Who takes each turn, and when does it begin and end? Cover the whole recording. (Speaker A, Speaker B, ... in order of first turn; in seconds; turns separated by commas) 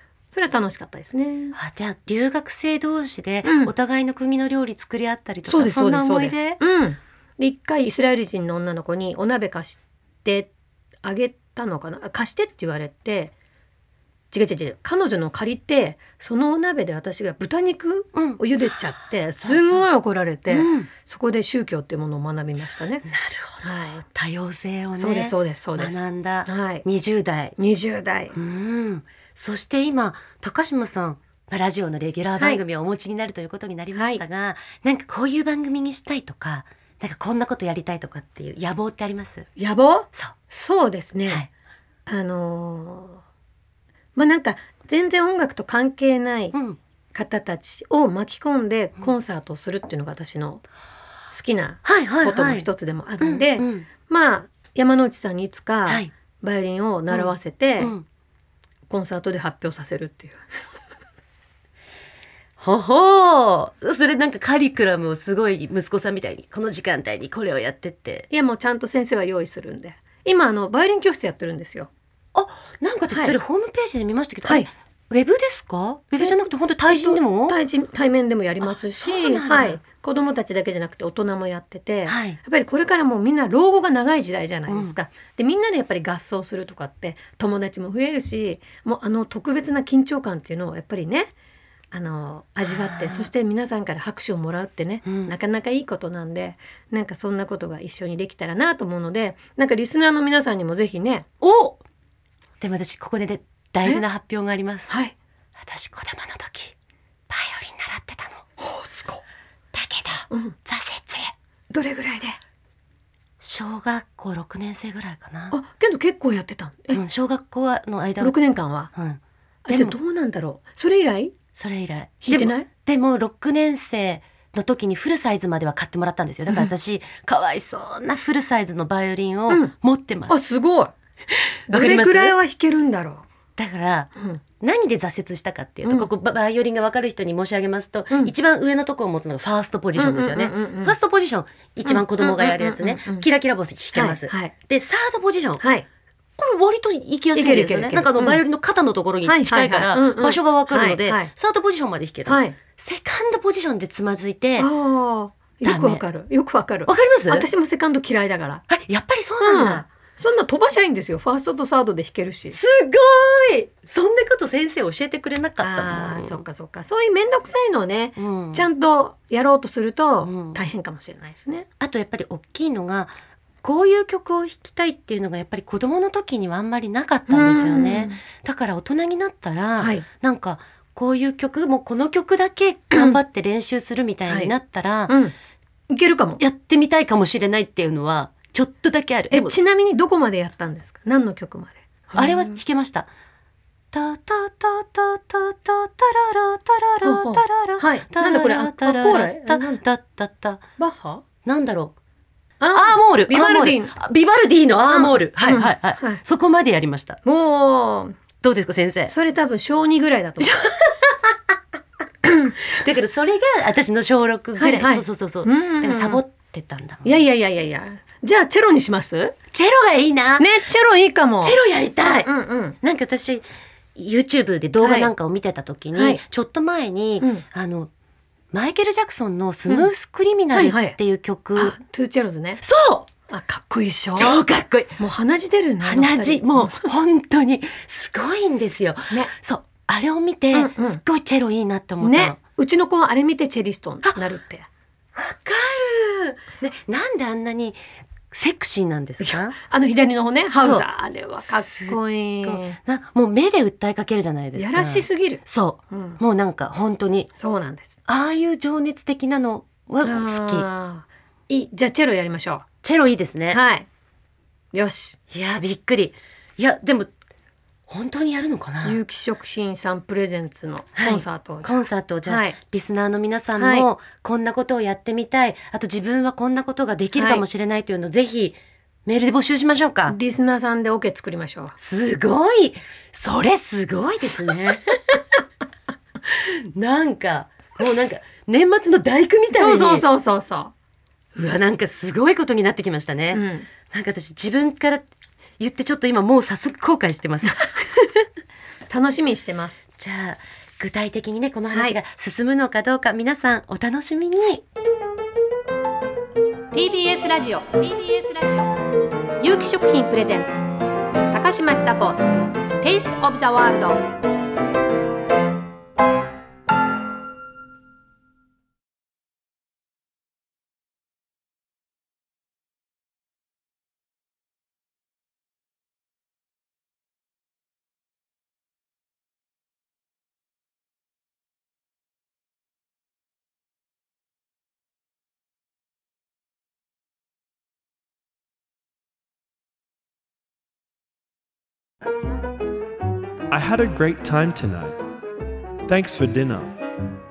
Speaker A: 0.3-1.6, Speaker B: 1.6-6.6, Speaker A: 3.4-3.7, Speaker A: 5.5-10.5, Speaker A: 11.0-13.3, Speaker A: 14.3-23.1, Speaker B: 18.1-18.4, Speaker B: 19.4-19.8, Speaker B: 20.5-20.9, Speaker B: 23.1-27.6, Speaker A: 23.6-24.0, Speaker A: 25.0-26.9, Speaker A: 27.6-28.4, Speaker B: 28.3-39.5, Speaker A: 33.9-34.2, Speaker A: 39.6-41.4, Speaker A: 42.1-43.2, Speaker A: 44.1-46.6, Speaker A: 47.1-50.6, Speaker A: 51.3-57.9, Speaker B: 51.8-52.7, Speaker B: 53.2-53.9, Speaker B: 57.1-58.0, Speaker A: 58.9-60.5, Speaker B: 62.6-68.3, Speaker A: 68.3-71.9, Speaker B: 72.3-77.6, Speaker A: 73.1-73.4, Speaker A: 76.2-91.3, Speaker B: 79.0-79.8, Speaker B: 82.1-82.4, Speaker B: 84.7-85.0, Speaker A: 91.9-101.3, Speaker B: 92.7-93.3, Speaker B: 95.0-95.3, Speaker B: 101.4-101.8, Speaker B: 102.6-104.9, Speaker A: 104.9-105.2, Speaker B: 105.6-106.8, Speaker B: 107.3-108.5, Speaker A: 108.6-109.2, Speaker B: 109.7-111.3, Speaker A: 110.3-110.6, Speaker A: 111.7-112.4, Speaker B: 113.4-115.5, Speaker A: 115.5-117.0, Speaker B: 116.9-118.4, Speaker A: 118.2-118.9, Speaker B: 119.0-120.0, Speaker A: 119.7-121.4, Speaker B: 121.6-130.4, Speaker A: 122.2-122.7, Speaker A: 130.3-130.9, Speaker B: 131.7-132.4, Speaker A: 131.7-133.3, Speaker B: 133.6-145.6, Speaker A: 134.2-134.4, Speaker A: 135.8-136.1, Speaker A: 140.0-141.0, Speaker A: 141.8-143.3, Speaker A: 143.9-144.5, Speaker A: 145.6-145.9, Speaker B: 146.4-154.7, Speaker A: 147.3-148.4, Speaker A: 149.2-151.3, Speaker A: 152.3-152.6, Speaker A: 154.6-158.6, Speaker B: 155.6-156.0, Speaker B: 156.9-157.5, Speaker B: 158.7-159.8, Speaker A: 159.4-162.6, Speaker B: 162.5-166.4, Speaker A: 165.6-171.7, Speaker B: 168.2-168.7, Speaker B: 170.2-170.6, Speaker B: 171.8-185.2, Speaker A: 177.3-178.2, Speaker A: 179.8-180.1, Speaker A: 182.9-183.2, Speaker A: 184.3-184.5, Speaker A: 185.1-185.3, Speaker A: 185.9-186.4, Speaker B: 186.4-189.6, Speaker A: 189.3-192.6, Speaker B: 192.2-193.1, Speaker B: 193.9-200.6, Speaker A: 197.0-199.8, Speaker A: 200.8-201.2, Speaker B: 201.4-201.9, Speaker A: 202.6-204.0, Speaker B: 202.7-207.2, Speaker A: 204.9-206.2, Speaker A: 207.2-208.2, Speaker B: 208.4-209.1, Speaker A: 209.1-210.6, Speaker B: 210.4-211.4, Speaker A: 212.3-212.5, Speaker B: 212.6-217.2, Speaker A: 214.6-216.2, Speaker A: 217.0-219.4, Speaker B: 219.5-220.5, Speaker A: 220.4-221.6, Speaker B: 221.4-222.3, Speaker A: 222.2-222.8, Speaker B: 222.8-227.9, Speaker A: 224.8-225.1, Speaker A: 225.9-226.2, Speaker B: 228.5-231.8, Speaker A: 230.5-231.0, Speaker A: 231.6-232.6, Speaker B: 232.6-233.1, Speaker A: 233.3-234.4, Speaker B: 234.2-235.0, Speaker A: 235.0-236.9, Speaker B: 235.8-242.4, Speaker A: 240.5-241.0, Speaker A: 242.0-244.7, Speaker B: 245.2-247.8, Speaker B: 248.3-249.6, Speaker A: 249.2-252.8, Speaker B: 250.6-250.9, Speaker B: 251.5-257.3, Speaker A: 254.6-256.2, Speaker A: 257.4-257.9, Speaker B: 258.1-260.7, Speaker A: 260.0-262.6, Speaker B: 262.8-263.6, Speaker A: 263.5-263.9, Speaker A: 264.7-265.2, Speaker B: 265.3-267.1, Speaker B: 267.9-269.0, Speaker A: 268.8-272.6, Speaker B: 271.0-280.2, Speaker A: 273.6-273.9, Speaker A: 277.1-277.4, Speaker A: 280.1-281.8, Speaker B: 281.8-285.2, Speaker B: 286.2-290.1, Speaker A: 289.5-290.7, Speaker B: 291.4-295.1, Speaker A: 293.3-293.7, Speaker B: 295.6-298.2, Speaker A: 298.9-299.9, Speaker B: 300.0-304.6, Speaker A: 301.7-302.0, Speaker A: 306.7-308.7, Speaker A: 309.4-310.6, Speaker A: 311.3-312.2, Speaker A: 312.8-314.1, Speaker C: 343.5-344.9, Speaker C: 345.9-346.7